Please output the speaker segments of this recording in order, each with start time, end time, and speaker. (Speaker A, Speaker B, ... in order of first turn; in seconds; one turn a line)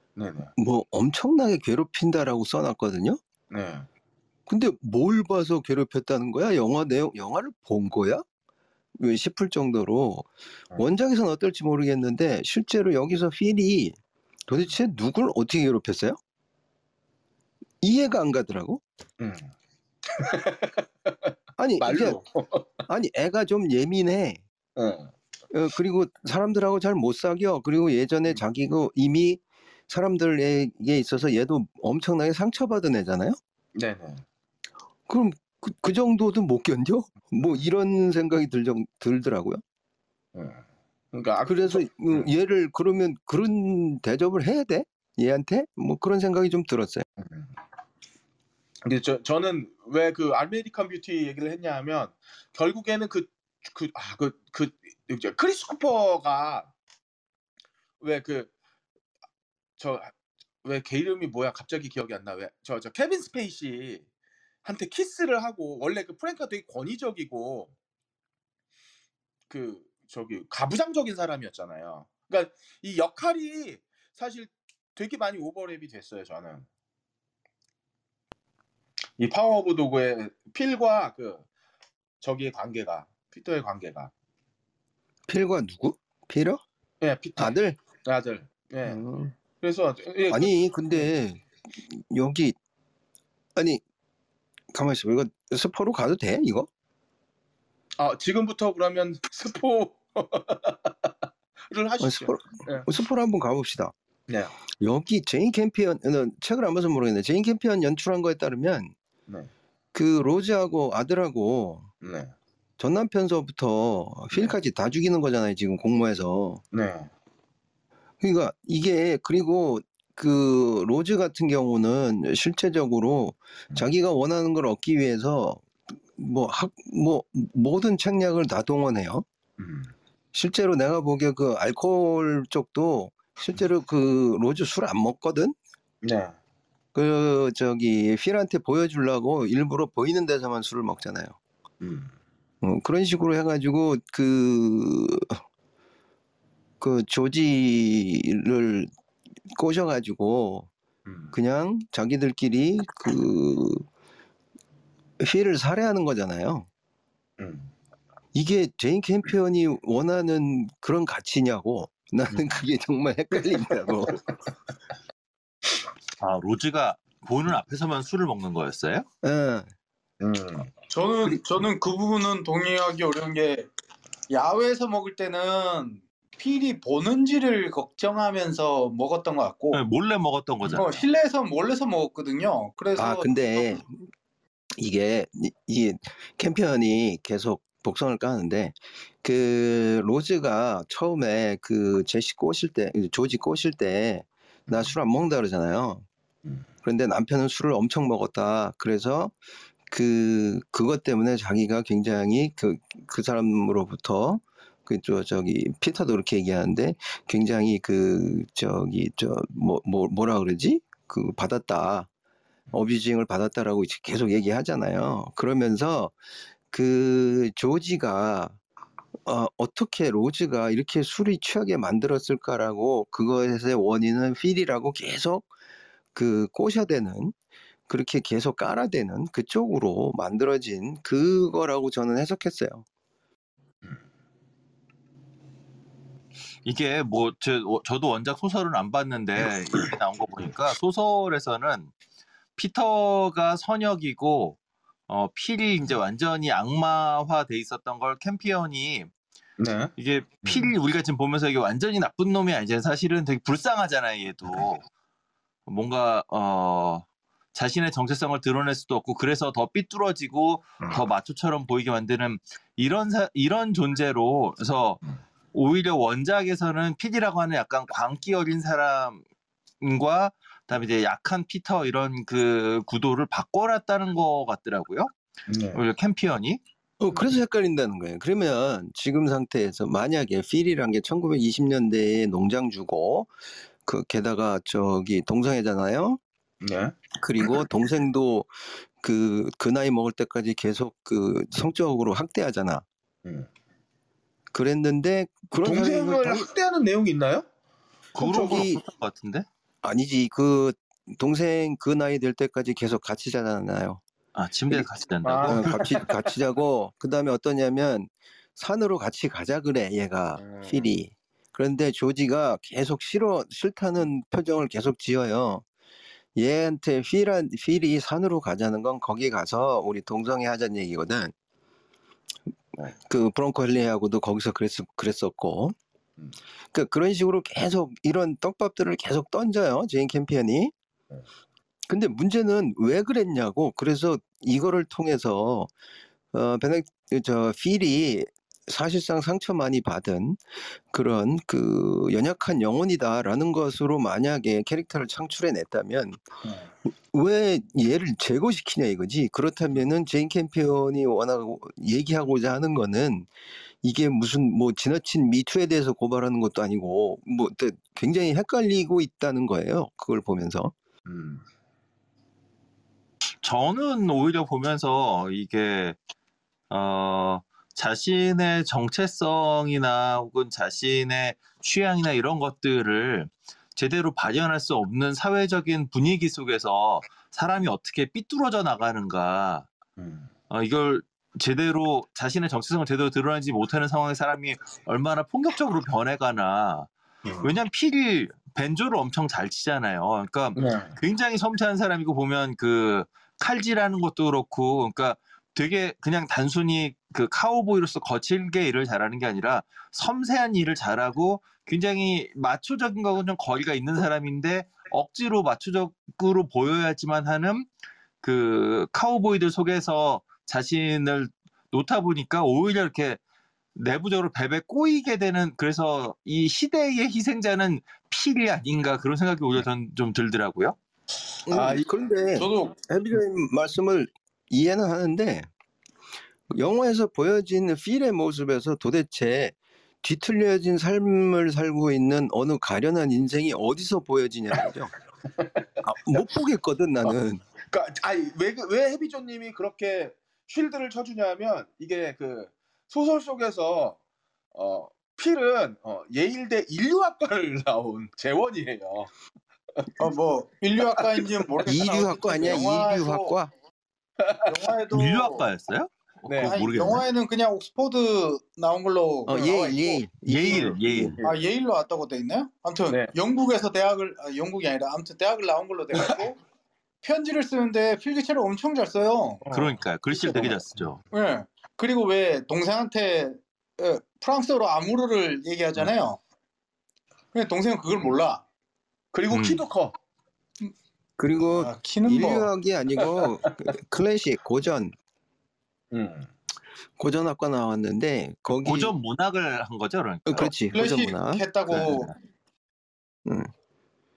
Speaker A: 0.2-0.5
Speaker B: 0.6-3.2
Speaker A: 3.5-3.9
Speaker B: 4.5-8.2
Speaker B: 9.0-14.0
Speaker B: 14.5-16.2
Speaker B: 17.8-18.8
Speaker A: 19.2-19.5
Speaker A: 20.1-22.9
Speaker B: 21.6-22.2
Speaker B: 22.9-24.4
Speaker A: 24.8-25.1
Speaker B: 25.5-33.4
Speaker A: 33.8-34.2
Speaker B: 35.1-39.6
Speaker A: 40.4-42.3
Speaker B: 41.5-47.0
Speaker A: 47.2-47.5
Speaker A: 48.9-56.7
Speaker A: 58.0-58.5
Speaker A: 59.8-64.0
Speaker A: 64.6-67.7
Speaker A: 69.5-76.7
Speaker A: 79.2-81.5
Speaker A: 82.2-84.1
Speaker B: 85.3-86.6
Speaker A: 87.0-89.0
Speaker B: 87.4-87.8
Speaker B: 88.8-89.3
Speaker A: 89.6-91.1
Speaker B: 90.3-92.6
Speaker B: 93.6-93.8
Speaker B: 94.7-96.7
Speaker A: 98.0-101.1
Speaker A: 101.7-102.9
Speaker B: 102.0-103.9
Speaker A: 104.3-104.5
Speaker B: 104.8-108.9
Speaker B: 109.9-111.9
Speaker A: 112.0-112.3
Speaker B: 112.8-116.6
Speaker A: 116.7-117.1
Speaker B: 118.2-129.2
Speaker A: 129.6-129.9
Speaker B: 130.3-135.6
Speaker A: 136.0-136.4
Speaker B: 136.9-141.3
Speaker A: 141.8-142.1
Speaker B: 142.6-145.4
Speaker B: 146.8-148.9
Speaker B: 149.5-150.7
Speaker A: 151.1-151.3
Speaker B: 151.3-153.8
Speaker B: 155.2-156.7
Speaker A: 157.4-157.7
Speaker B: 158.3-164.2
Speaker A: 162.3-162.7
Speaker A: 163.9-164.2
Speaker C: 166.2-169.1
Speaker B: 169.2-169.7
Speaker A: 170.2-170.7
Speaker D: 170.9-173.7
Speaker D: 174.3-179.8
Speaker C: 179.7-181.0
Speaker D: 180.6-183.3
Speaker B: 183.0-184.0
Speaker B: 184.8-196.1
Speaker B: 196.8-199.4
Speaker B: 199.9-212.1
Speaker B: 212.7-216.1
Speaker B: 216.7-218.6
Speaker B: 219.3-225.5
Speaker B: 226.1-227.3
Speaker B: 227.9-232.8
Speaker C: 236.7-241.9
Speaker C: 242.6-244.6
Speaker C: 245.1-249.1
Speaker A: 249.6-249.9
Speaker C: 250.0-254.9
Speaker A: 250.4-250.7
Speaker C: 255.7-265.0
Speaker C: 265.5-269.2
Speaker C: 269.8-275.1
Speaker A: 275.5-275.8
Speaker C: 275.7-276.6
Speaker B: 277.0-283.3
Speaker B: 283.9-286.2
Speaker A: 286.6-287.0
Speaker B: 287.2-292.9
Speaker B: 294.5-296.5
Speaker A: 295.6-297.5
Speaker C: 298.1-299.5
Speaker A: 298.2-298.7
Speaker B: 298.2-298.8
Speaker B: 299.8-304.0
Speaker C: 304.4-306.0
Speaker A: 305.2-306.1
Speaker B: 305.4-315.6
Speaker A: 310.4-310.8
Speaker B: 316.4-321.3
Speaker B: 322.8-325.8
Speaker B: 326.7-330.7
Speaker B: 331.9-335.7
Speaker B: 336.3-346.2
Speaker B: 347.1-353.3
Speaker B: 353.8-360.7
Speaker A: 361.1-361.4
Speaker C: 363.4-366.0
Speaker C: 366.7-379.7
Speaker A: 380.0-380.3
Speaker C: 380.5-386.9
Speaker C: 387.4-407.7
Speaker A: 390.6-391.0
Speaker C: 408.2-413.2
Speaker C: 413.8-420.8
Speaker B: 421.5-425.5
Speaker D: 421.6-421.8
Speaker A: 421.6-421.8
Speaker D: 422.3-422.8
Speaker B: 426.5-434.9
Speaker B: 435.8-437.4
Speaker A: 437.7-444.0
Speaker A: 444.5-449.1
Speaker D: 450.0-453.4
Speaker B: 451.7-453.5
Speaker A: 454.2-454.8
Speaker D: 454.5-455.5
Speaker C: 454.9-457.0
Speaker A: 456.3-456.6
Speaker D: 456.4-460.0
Speaker B: 459.3-461.2
Speaker A: 459.4-459.8
Speaker C: 460.3-461.2
Speaker A: 460.5-461.4
Speaker D: 461.2-466.4
Speaker D: 467.0-469.4
Speaker A: 469.4-470.9
Speaker C: 469.5-471.0
Speaker D: 471.1-476.2
Speaker D: 477.3-478.4
Speaker A: 479.1-479.9
Speaker C: 479.3-479.6
Speaker B: 481.2-484.9
Speaker D: 481.5-482.5
Speaker A: 485.9-486.3
Speaker B: 487.0-488.9
Speaker C: 488.6-490.5
Speaker B: 490.3-491.4
Speaker D: 490.7-492.1
Speaker C: 491.7-492.1
Speaker B: 493.3-493.5